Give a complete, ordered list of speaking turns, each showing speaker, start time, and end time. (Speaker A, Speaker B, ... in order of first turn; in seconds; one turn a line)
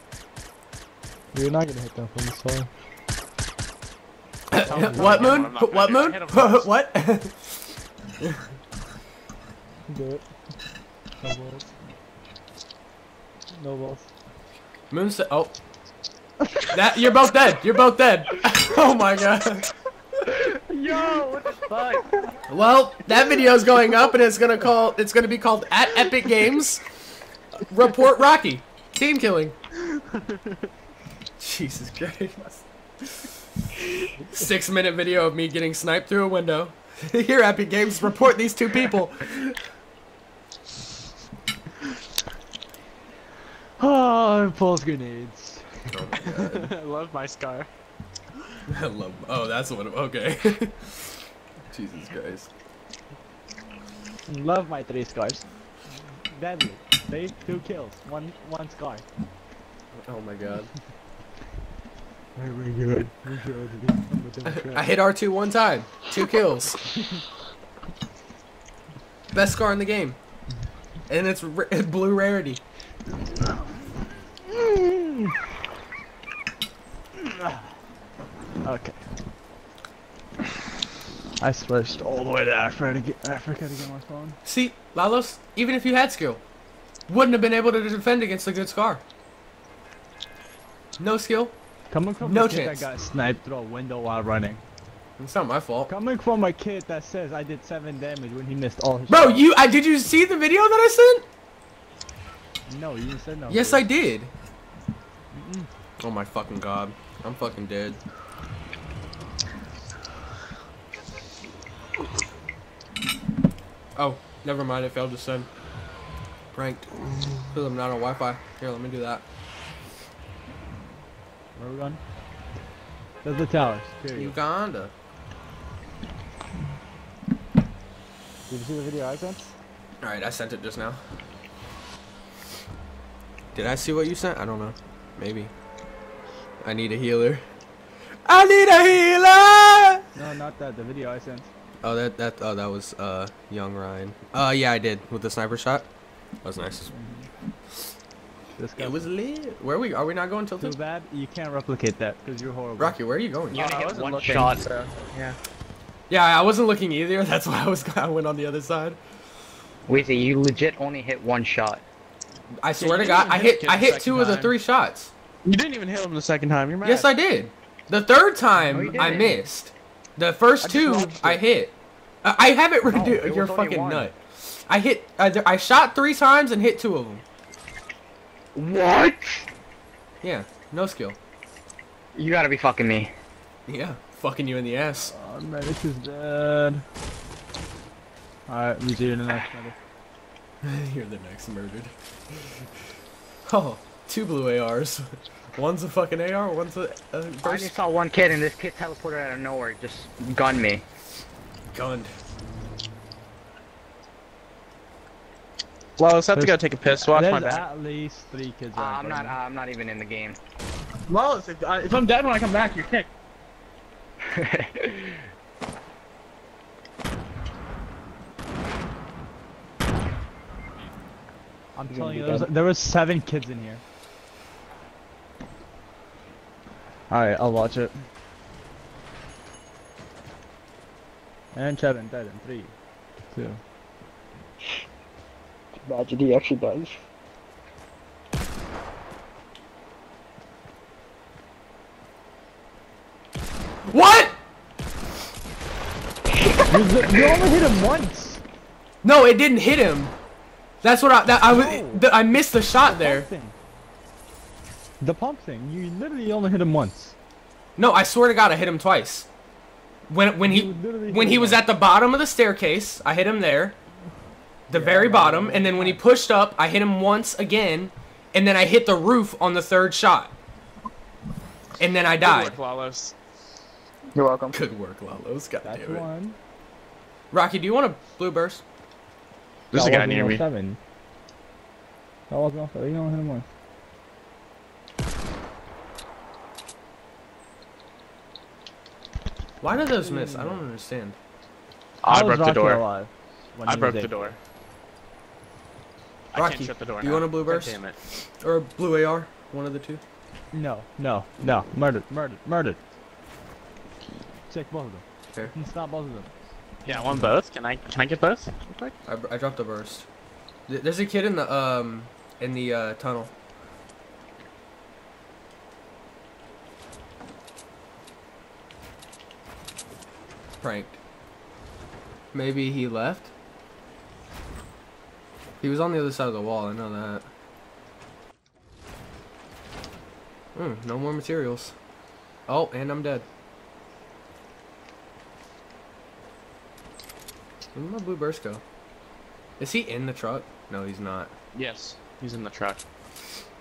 Speaker A: 1.3-2.7
Speaker B: 4.5-8.5
Speaker C: 4.6-6.7
Speaker A: 4.7-5.3
Speaker A: 9.9-10.2
Speaker A: 11.2-11.7
Speaker A: 13.5-14.1
Speaker B: 14.9-15.5
Speaker B: 16.7-19.7
Speaker A: 20.3-22.1
Speaker D: 21.0-22.0
Speaker B: 22.5-26.8
Speaker B: 27.6-29.6
Speaker B: 31.4-33.3
Speaker B: 34.2-39.6
Speaker A: 43.8-45.6
Speaker B: 45.9-46.7
Speaker C: 46.2-47.7
Speaker B: 48.7-52.5
Speaker A: 54.3-55.5
Speaker A: 56.3-59.0
Speaker B: 59.9-60.7
Speaker A: 62.4-64.9
Speaker B: 64.5-66.8
Speaker B: 69.3-70.2
Speaker B: 71.1-72.6
Speaker A: 74.5-75.4
Speaker A: 77.2-77.7
Speaker A: 78.6-79.0
Speaker A: 81.4-84.4
Speaker B: 84.4-86.4
Speaker B: 87.1-89.0
Speaker B: 91.0-91.5
Speaker A: 91.9-94.6
Speaker B: 92.2-92.8
Speaker B: 95.2-95.9
Speaker A: 95.9-99.4
Speaker B: 99.1-101.2
Speaker A: 102.7-103.9
Speaker B: 103.5-104.3
Speaker A: 105.3-105.7
Speaker B: 106.0-108.0
Speaker B: 114.0-115.5
Speaker B: 116.5-116.9
Speaker B: 117.5-119.2
Speaker A: 121.5-122.0
Speaker A: 123.2-124.3
Speaker B: 124.1-124.9
Speaker A: 128.5-129.5
Speaker B: 130.0-131.0
Speaker B: 133.5-135.5
Speaker B: 136.6-137.4
Speaker B: 138.2-140.0
Speaker A: 140.1-141.5
Speaker B: 141.8-145.9
Speaker B: 146.4-146.9
Speaker A: 146.9-147.3
Speaker A: 148.6-149.0
Speaker B: 148.8-150.8
Speaker A: 150.6-153.0
Speaker B: 152.8-153.6
Speaker C: 153.5-155.4
Speaker D: 153.5-154.9
Speaker B: 156.1-159.0
Speaker D: 159.9-161.8
Speaker B: 162.6-165.1
Speaker C: 162.8-164.5
Speaker C: 165.4-167.1
Speaker B: 166.8-177.2
Speaker D: 168.7-169.4
Speaker C: 170.6-171.4
Speaker D: 172.9-174.1
Speaker D: 178.5-179.4
Speaker B: 180.2-181.2
Speaker D: 182.1-183.1
Speaker B: 183.7-185.1
Speaker A: 185.1-186.8
Speaker A: 188.5-189.7
Speaker B: 190.6-192.7
Speaker B: 193.4-197.8
Speaker D: 197.4-200.8
Speaker B: 201.7-202.1
Speaker C: 206.0-207.6
Speaker A: 206.3-209.4
Speaker D: 208.7-210.4
Speaker C: 211.1-213.1
Speaker D: 214.2-215.2
Speaker A: 221.7-223.8
Speaker D: 221.9-222.5
Speaker A: 227.1-227.9
Speaker A: 231.5-232.7
Speaker A: 233.3-233.6
Speaker D: 235.8-237.0
Speaker B: 243.9-244.4
Speaker D: 246.3-246.7
Speaker A: 246.7-248.4
Speaker B: 249.0-250.1
Speaker B: 250.8-253.3
Speaker A: 251.4-252.0
Speaker A: 252.8-253.5
Speaker A: 255.0-257.1
Speaker B: 257.8-259.3
Speaker B: 260.1-263.8
Speaker A: 260.4-261.6
Speaker B: 264.7-270.3
Speaker A: 264.7-266.0
Speaker B: 271.8-272.6
Speaker C: 272.2-273.1
Speaker D: 274.1-274.6
Speaker B: 274.5-276.0
Speaker A: 275.6-276.4
Speaker B: 277.3-278.6
Speaker C: 279.7-280.4
Speaker A: 279.7-280.8
Speaker A: 282.3-283.4
Speaker B: 289.6-291.2
Speaker A: 289.9-290.7
Speaker C: 292.0-292.8
Speaker A: 292.1-294.3
Speaker C: 293.7-294.4
Speaker C: 296.3-298.0
Speaker B: 296.3-297.8
Speaker B: 298.4-300.0
Speaker A: 300.5-302.8
Speaker A: 304.5-306.3
Speaker C: 306.8-308.9
Speaker B: 309.1-310.1
Speaker B: 310.7-313.3
Speaker B: 320.6-321.0
Speaker B: 322.3-323.3
Speaker B: 325.6-327.3
Speaker B: 330.5-331.7
Speaker B: 332.5-333.2
Speaker B: 337.7-338.6
Speaker B: 339.6-341.3
Speaker C: 341.5-342.8